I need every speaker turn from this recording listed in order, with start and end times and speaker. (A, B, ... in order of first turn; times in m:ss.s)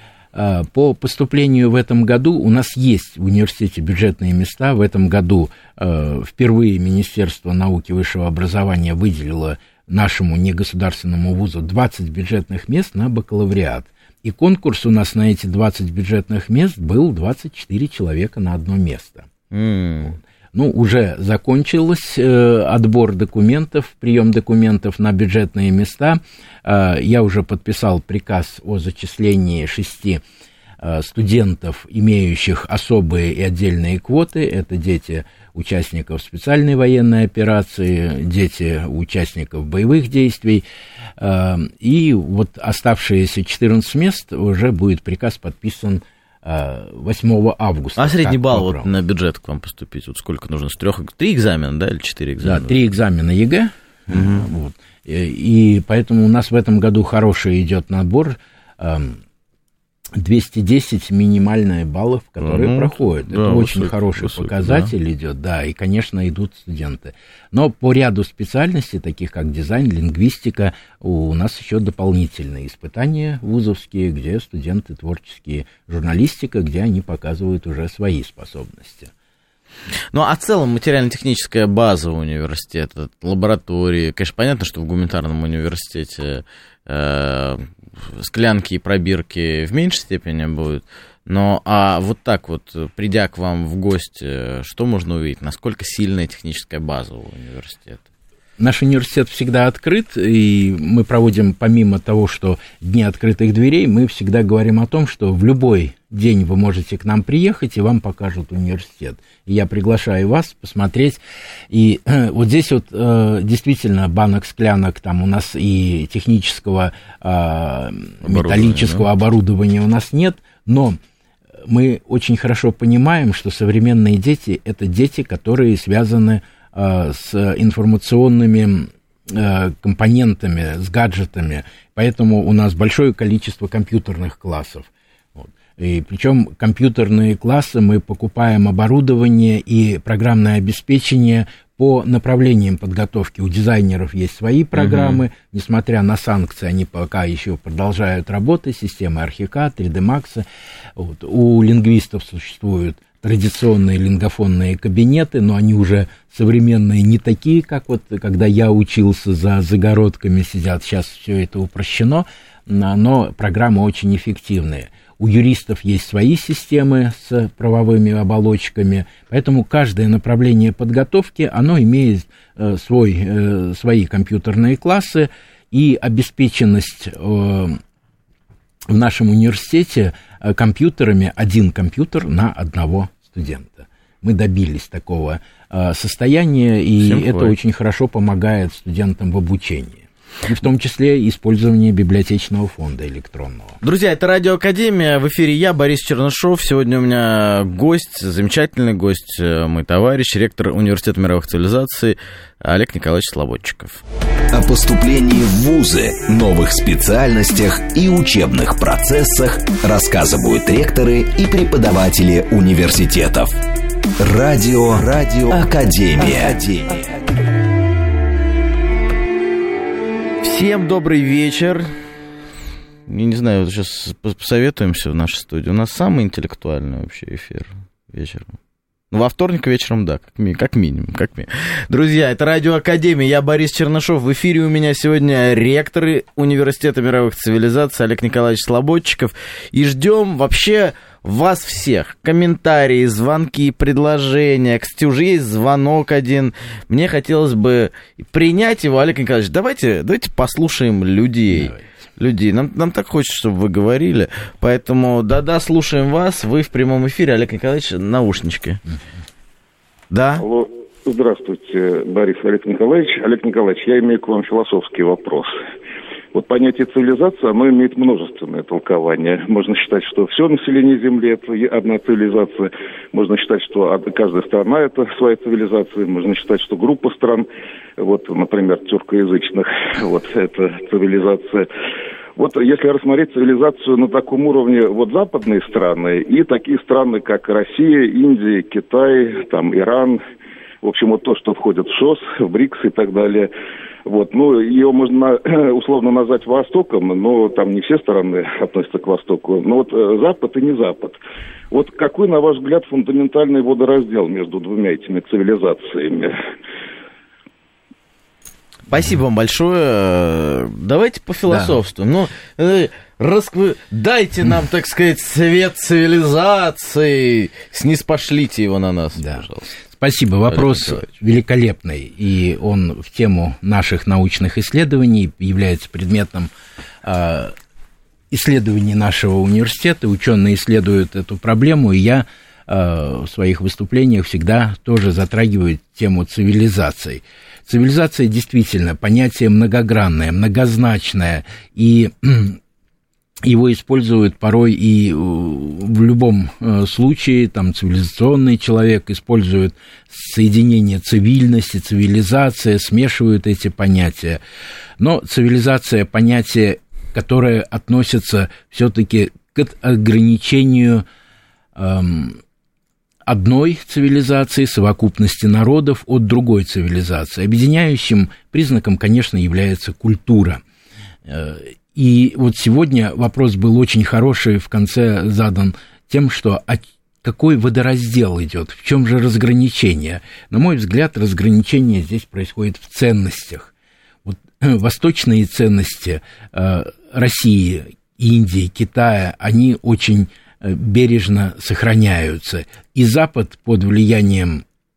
0:00.3-0:19.3 A
0:19.5-0:20.2 B
0:20.0-0:30.2 A
0:30.8-0:40.6 A
0:41.2-0:48.9 A
0:48.0-0:52.7 B
0:52.4-0:59.2 A
0:54.1-0:54.5 B
1:00.1-1:19.1 A
1:02.4-1:04.9 B
1:20.1-1:38.0 B
1:38.6-2:01.0 A
1:58.2-1:59.0 B
2:01.6-2:57.8 A
2:24.8-2:25.2 B
2:58.9-3:13.8 A
3:07.0-3:07.5 B
3:13.8-3:24.0 B
3:24.5-3:33.5 C
3:34.2-3:37.0 C
3:40.4-3:41.9 B
3:43.1-3:48.6 B
3:49.1-4:18.8 B
4:11.5-4:11.8 A
4:20.1-4:20.4 B
4:20.4-4:25.5 D
4:26.3-4:37.5 D
4:38.0-4:41.7 D
4:42.4-4:50.2 D
4:50.8-4:53.5 D
4:54.0-5:01.2 D
5:01.7-5:06.3 D
5:08.9-5:19.7 B
5:11.5-5:11.8 A
5:19.2-5:26.5 A
5:20.5-5:21.1 B
5:27.0-5:27.5 A
5:28.3-5:42.6 A
5:43.4-5:54.4 A
5:55.0-6:01.0 A
6:01.8-6:02.4 A
6:03.2-6:10.6 A
6:11.2-6:23.7 A
6:24.2-6:34.6 A